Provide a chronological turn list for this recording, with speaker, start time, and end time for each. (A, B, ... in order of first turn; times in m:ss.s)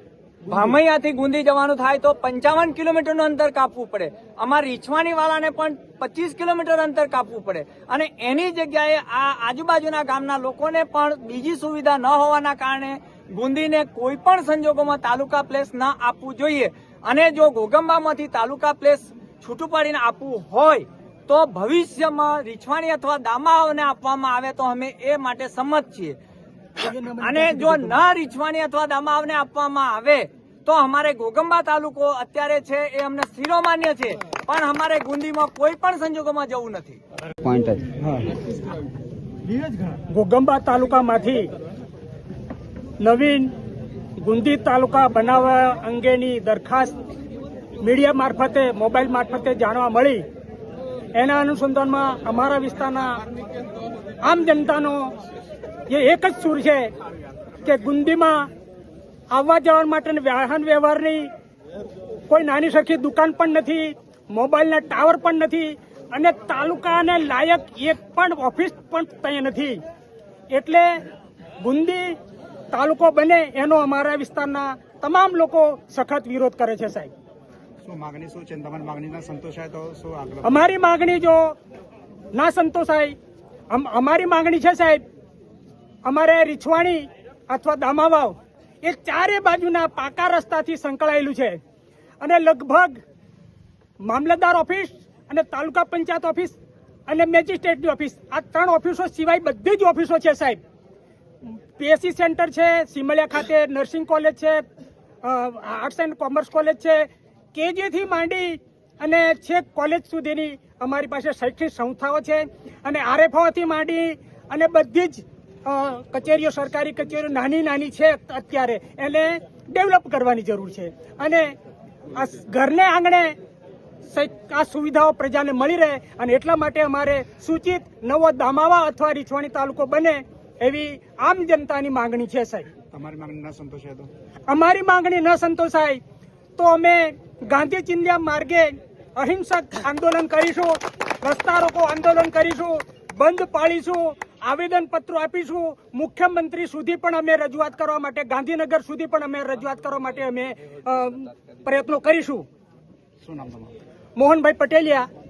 0:00.5-0:26.2 A
0:26.8-0:27.9 B
0:27.2-0:37.0 A
0:40.1-0:41.5 B
0:43.0-0:43.5 B
0:44.2-0:47.0 B
0:47.8-0:50.2 B
0:51.2-0:53.2 B
0:54.2-0:55.1 B
0:55.9-0:56.9 B
0:57.6-0:58.4 B
0:59.3-1:01.3 B
1:02.3-1:09.8 B
1:10.5-1:10.9 B
1:11.6-1:12.2 B
1:12.7-1:17.1 B
1:17.8-1:20.6 C
1:20.4-1:21.6 B
1:22.3-1:23.2 B
1:23.7-1:25.0 B
1:26.0-1:31.6 B
1:32.2-1:33.0 B
1:34.0-1:36.6 B
1:37.1-1:40.6 B
1:41.8-1:44.6 B
1:45.2-2:01.5 B
2:02.1-2:03.3 B
2:04.1-2:12.7 B
2:12.9-2:14.1 C
2:14.5-2:16.0 B
2:16.6-2:32.4 B
2:33.2-2:33.7 C
2:34.2-2:35.1 B